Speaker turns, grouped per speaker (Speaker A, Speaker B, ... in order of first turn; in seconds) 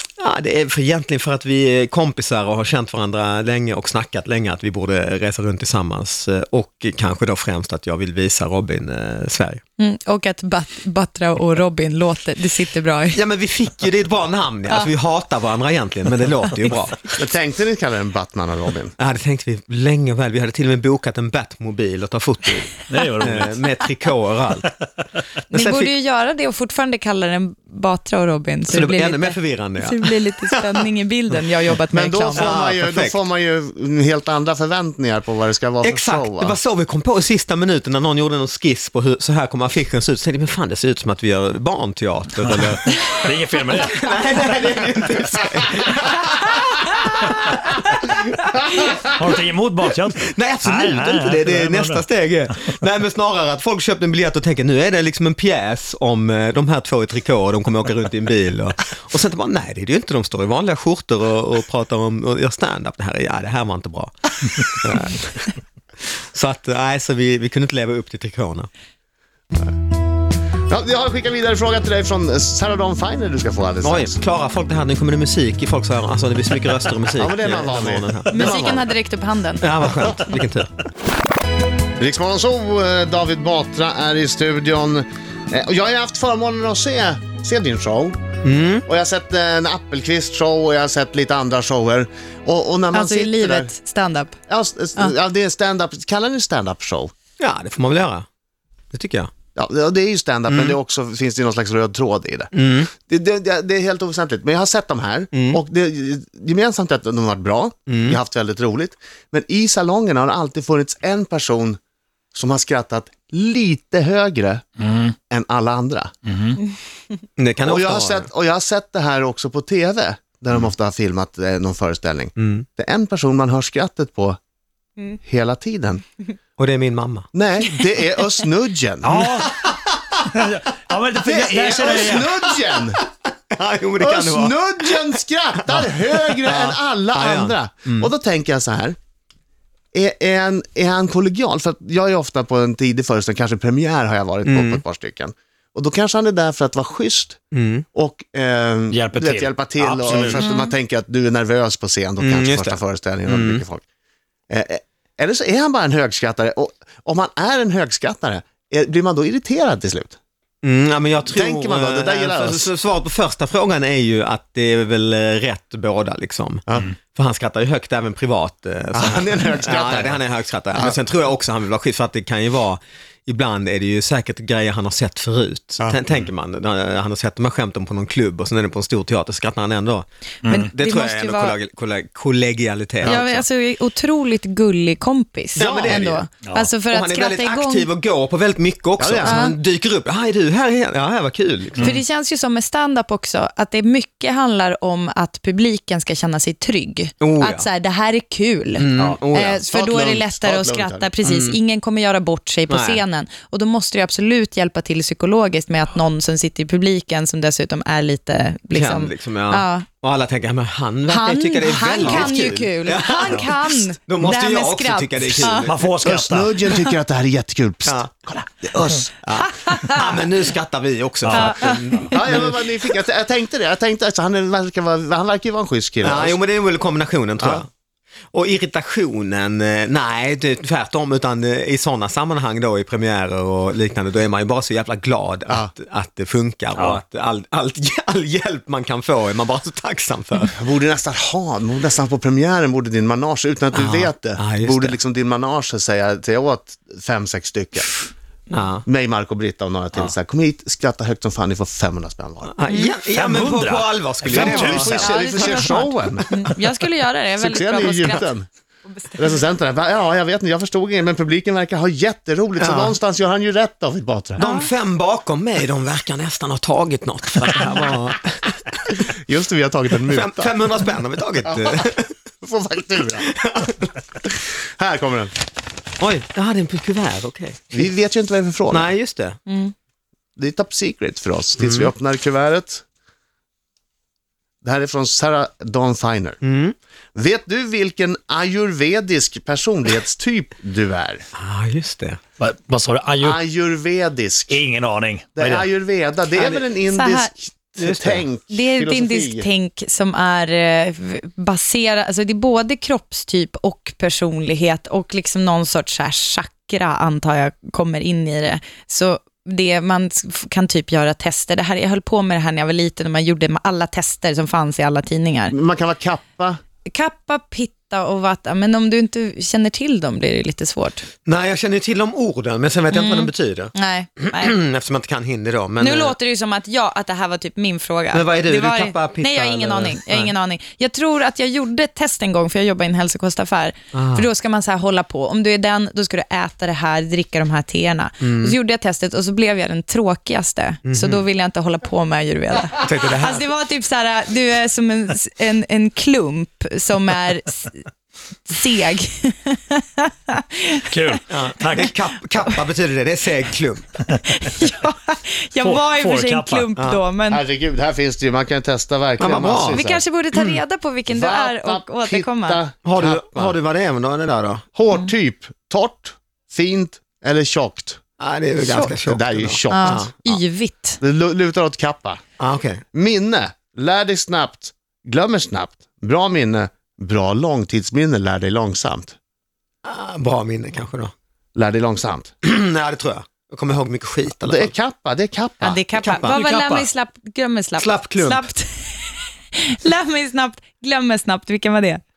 Speaker A: 0.2-9.6, 13.1-17.2, 19.0-24.7, 25.5-25.9, 28.7-30.9, 32.3-33.2, 35.8-43.2, 43.7-49.0, 50.3-65.5, 66.3-68.7, 73.8-78.9, 79.6-80.7, 88.4-88.8, 97.4-98.3, 98.9-99.3, 100.5-100.8, 102.5-102.9, 105.3-105.6, 107.9-108.2, 117.4-118.3, 122.4-122.7, 126.6-127.3, 129.4-130.2, 132.0-135.2, 135.7-138.1, 144.5-144.8, 147.5-147.8, 152.2-153.6, 160.6-180.1, 180.7-183.5, 185.6-186.2, 186.8-192.0, 197.2-197.7, 198.8-199.6, 201.2-201.6, 202.7-203.0, 208.7-215.9, 219.2-222.6, 226.0-227.7, 228.3-240.6, 243.7-245.0, 248.5-248.8, 252.5-256.5, 262.6-263.0, 264.4-269.0, 270.1-272.1, 273.2-273.9, 276.0-277.9, 278.7-279.4, 281.6-281.9, 286.4-286.8, 291.4-292.2, 296.4-296.7, 297.8-298.3, 321.3-326.2, 328.1-330.3, 333.9-334.3, 338.2-338.6, 340.9-341.2, 342.8-343.5, 351.3-354.0, 356.8-357.0, 359.2-360.6, 362.8-364.6, 368.2-370.4, 372.4-372.8, 379.9-381.1, 382.4-384.7, 386.0-386.4, 387.8-388.5
Speaker B: 9.8-13.2, 25.5-32.5, 78.3-79.7, 92.9-94.4, 150.4-150.7, 180.5-181.6, 183.1-187.9, 189.2-189.6, 191.8-209.9, 211.1-215.7, 219.6-220.1, 221.4-221.8, 252.7-253.0, 255.0-258.3, 258.9-259.4, 264.4-264.7, 279.5-279.7, 296.8-297.3, 298.5-315.6, 316.9-321.1, 322.9-324.6, 325.8-347.9, 348.5-351.1, 354.2-357.4, 359.7-362.6, 368.7-368.9, 369.7-371.0, 385.6-392.0
Speaker C: 17.2-18.9, 31.9-36.6, 70.7-74.2, 77.2-78.9, 82.0-88.2, 88.9-93.7, 94.5-97.1, 99.5-111.8, 112.3-114.6, 115.3-116.1, 117.6-124.4, 125.1-126.0, 127.3-129.2, 131.2-133.0, 134.0-139.0, 139.9-147.4, 147.9-153.8, 154.5-160.2, 161.3-162.7, 168.9-170.2, 185.6-186.1, 189.0-189.4, 199.7-201.1, 212.0-212.3, 216.0-219.2, 222.1-226.4, 240.5-248.0, 248.9-252.5, 254.2-256.3, 257.4-258.5, 259.1-264.4, 269.1-270.5, 272.4-273.3, 274.8-275.3, 277.7-278.9, 280.4-282.8, 284.6-286.4, 287.2-291.2, 293.2-294.6, 295.4-299.5, 315.5-316.6, 357.3-360.0, 361.1-363.6, 364.8-368.0, 369.0-370.1, 371.0-372.2, 372.9-379.2, 381.6-382.3, 384.4-385.8
Speaker D: 22.9-23.6, 42.4-44.0, 49.0-52.1, 114.8-115.1, 116.3-116.6, 129.0-129.6, 130.2-132.3, 148.9-150.5, 180.4-180.7, 186.4-186.7, 191.8-192.0, 198.9-199.2, 213.3-213.5, 215.4-216.6, 221.3-222.1, 236.8-237.0, 253.0-255.7, 292.4-293.4, 294.5-295.7, 350.9-351.9, 354.1-354.5, 355.6-356.7, 386.2-386.9